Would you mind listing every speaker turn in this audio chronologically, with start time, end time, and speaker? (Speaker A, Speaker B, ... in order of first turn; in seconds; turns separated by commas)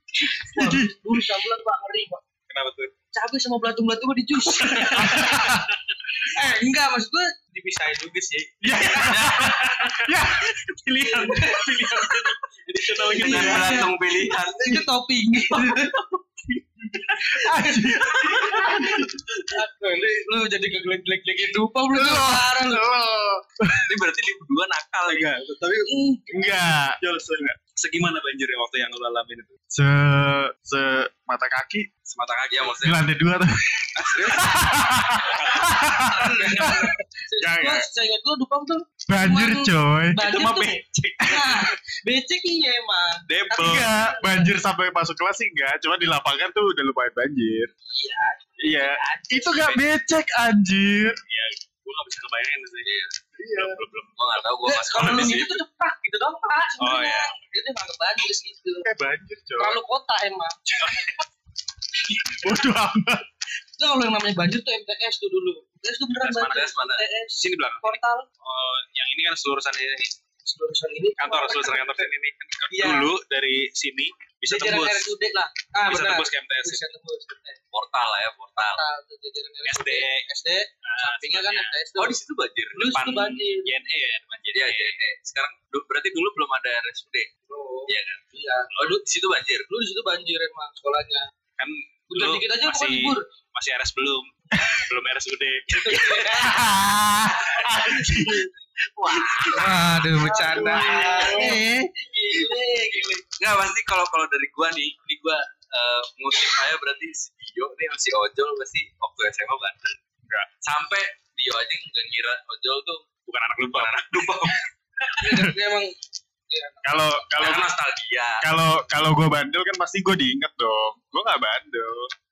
Speaker A: 0.2-2.2, Speaker B: 0.3-1.1, Speaker C: 2.5-2.9, Speaker A: 3.1-5.5, Speaker C: 4.6-5.7, Speaker B: 4.9-5.7, Speaker A: 6.3-8.8, Speaker B: 8.6-11.7, Speaker C: 8.9-10.2, Speaker D: 8.9-9.9, Speaker C: 10.9-13.9, Speaker A: 11.1-12.3, Speaker A: 13.0-16.0, Speaker D: 13.2-14.9, Speaker B: 17.2-19.2, Speaker A: 17.2-22.9, Speaker B: 21.9-23.9, Speaker D: 23.9-25.4, Speaker C: 25.1-25.9, Speaker A: 25.8-26.6, Speaker B: 26.3-27.5, Speaker C: 27.0-29.5, Speaker B: 29.7-31.9, Speaker C: 32.1-32.9, Speaker D: 32.5-33.0, Speaker B: 32.8-37.9, Speaker C: 34.0-36.9, Speaker A: 36.2-44.6, Speaker B: 39.1-40.2, Speaker C: 40.2-41.7, Speaker C: 43.3-43.9, Speaker B: 43.5-47.7, Speaker A: 47.9-49.8, Speaker B: 48.6-51.2, Speaker C: 51.3-52.9, Speaker D: 52.8-53.1, Speaker B: 53.4-53.8, Speaker C: 53.5-54.2, Speaker D: 54.1-55.6, Speaker A: 54.6-58.9, Speaker C: 56.8-57.3, Speaker B: 58.9-59.8, Speaker A: 59.6-60.6, Speaker C: 60.8-61.1, Speaker B: 62.3-63.2, Speaker A: 63.8-68.3, Speaker C: 66.2-66.7, Speaker D: 66.4-67.0, Speaker C: 67.4-70.1, Speaker A: 70.5-72.1, Speaker C: 71.2-75.1, Speaker A: 72.7-73.1, Speaker A: 74.5-77.6, Speaker C: 75.9-76.8, Speaker D: 77.7-78.8, Speaker A: 78.6-82.2, Speaker C: 79.7-80.3, Speaker C: 80.8-81.8, Speaker D: 82.0-82.9, Speaker A: 82.7-83.7, Speaker C: 82.8-85.0, Speaker D: 84.5-87.3, Speaker A: 87.5-89.0, Speaker D: 87.9-88.2, Speaker D: 88.8-89.7, Speaker A: 89.7-91.2, Speaker C: 91.6-96.5, Speaker A: 92.1-93.2, Speaker B: 94.6-94.8, Speaker A: 95.7-96.6, Speaker D: 95.9-96.3, Speaker B: 96.3-98.5, Speaker D: 97.6-98.2, Speaker D: 99.0-100.1, Speaker A: 99.5-103.2, Speaker B: 100.2-101.6, Speaker D: 100.7-101.6, Speaker C: 101.0-101.4, Speaker D: 103.3-110.0, Speaker D: 110.6-113.1, Speaker C: 113.3-114.6, Speaker D: 113.7-114.6, Speaker A: 115.2-116.0, Speaker A: 116.5-117.1, Speaker B: 116.8-117.7, Speaker D: 117.4-118.5, Speaker B: 118.4-122.1